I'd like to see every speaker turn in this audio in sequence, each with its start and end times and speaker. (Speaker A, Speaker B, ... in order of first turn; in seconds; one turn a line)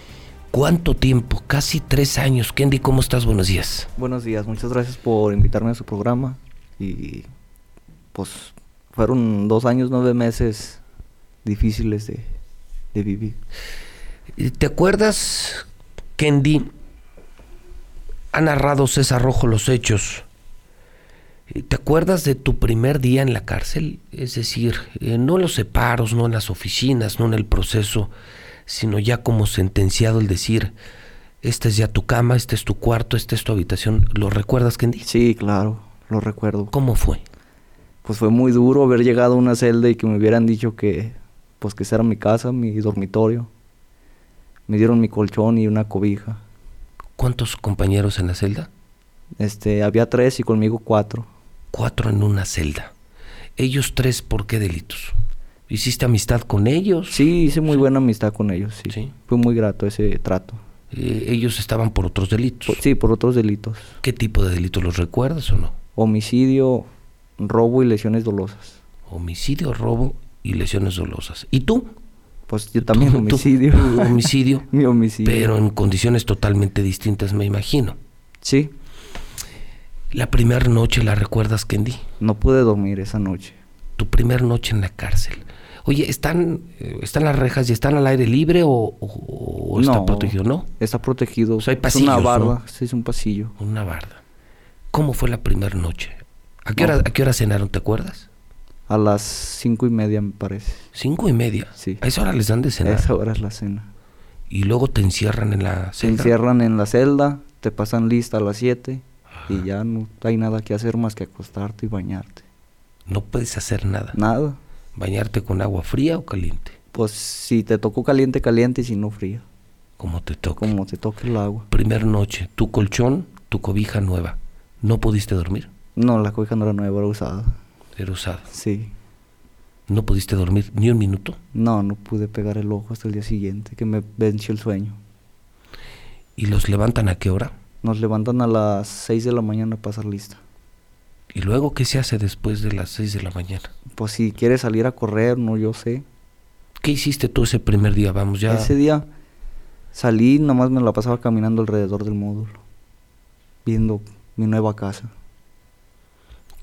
Speaker A: 0.5-3.9
Speaker B: 4.0-7.3
Speaker B: 8.1-10.8
Speaker B: 11.4-12.3
Speaker B: 12.9-13.4
Speaker A: 14.4-15.7
Speaker A: 16.2-16.7
Speaker A: 18.3-20.3
Speaker A: 21.5-28.1
Speaker A: 28.7-30.8
Speaker A: 31.4-35.1
Speaker B: 35.0-36.7
Speaker A: 36.7-37.2
Speaker B: 38.0-43.5
Speaker B: 44.7-46.4
Speaker A: 47.2-48.7
Speaker B: 49.4-51.3
Speaker A: 51.7-52.9
Speaker A: 53.6-55.2
Speaker A: 55.7-57.3
Speaker B: 57.1-60.6
Speaker A: 60.9-62.8
Speaker B: 62.7-64.0
Speaker A: 64.0-65.8
Speaker B: 66.0-66.9
Speaker B: 67.4-68.8
Speaker A: 69.1-71.9
Speaker B: 72.5-75.5
Speaker A: 72.8-74.7
Speaker A: 75.2-78.0
Speaker B: 78.4-78.7
Speaker A: 80.1-82.0
Speaker B: 82.2-83.6
Speaker A: 84.0-90.7
Speaker B: 89.8-93.5
Speaker A: 91.6-92.6
Speaker A: 93.6-94.2
Speaker A: 94.9-98.3
Speaker B: 98.9-100.9
Speaker A: 100.9-103.1
Speaker B: 102.8-103.9
Speaker A: 104.5-106.3
Speaker B: 106.0-112.4
Speaker A: 113.1-114.2
Speaker B: 114.1-114.6
Speaker A: 115.0-116.8
Speaker B: 116.9-119.4
Speaker A: 120.0-120.7
Speaker B: 120.6-121.7
Speaker A: 121.7-125.7
Speaker B: 126.0-127.6
Speaker A: 128.0-128.5
Speaker B: 128.5-128.9
Speaker A: 129.9-131.4
Speaker B: 131.5-135.0
Speaker A: 136.4-137.5
Speaker B: 137.8-140.4
Speaker A: 141.3-143.7
Speaker B: 143.9-146.1
Speaker A: 146.8-148.7
Speaker B: 148.5-149.1
Speaker B: 149.9-152.6
Speaker B: 153.6-155.1